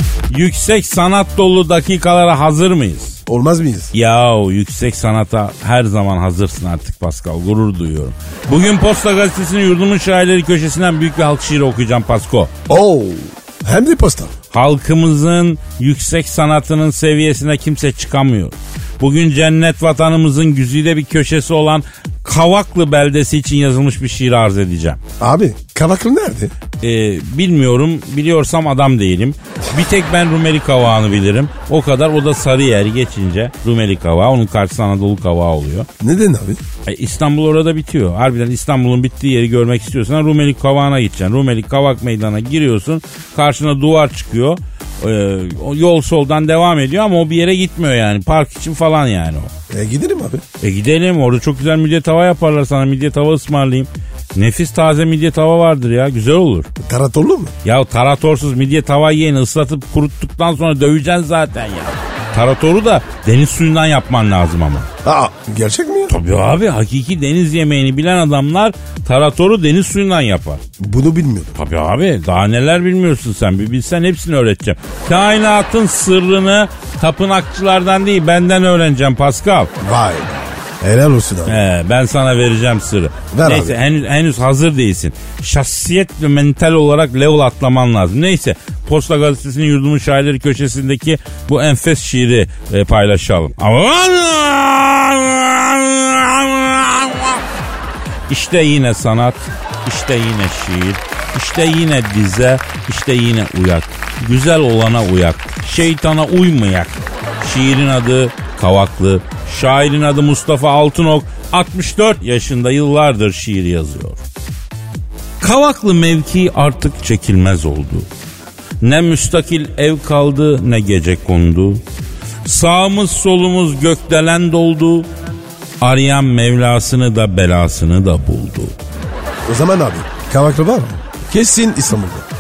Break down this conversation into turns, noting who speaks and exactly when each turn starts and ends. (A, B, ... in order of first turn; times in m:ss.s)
0:00.3-0:03.2 A
0:03.3-0:03.9 B
0:03.9-0:12.5 A
0:12.7-0:14.3 B
0:14.5-0:25.0 A
0:25.2-0:26.5 B
0:26.8-0:35.9 A
0:36.0-0:36.6 B
0:36.8-0:49.5 A
0:49.7-0:50.4 B
0:50.6-0:56.7 A
0:56.8-0:57.5 B
0:57.6-1:04.9 A
1:05.0-1:06.2 B
1:06.1-1:10.6 A
1:10.8-1:11.5 B
1:11.5-1:19.7 A
1:19.8-1:21.6 B
1:21.5-1:37.4 A
1:23.3-1:23.8 B
1:38.3-1:54.2 A
1:55.4-1:58.1 A
1:58.8-2:01.8 A
2:02.4-2:05.1 A
2:05.8-2:08.7 A
2:09.4-2:12.3 B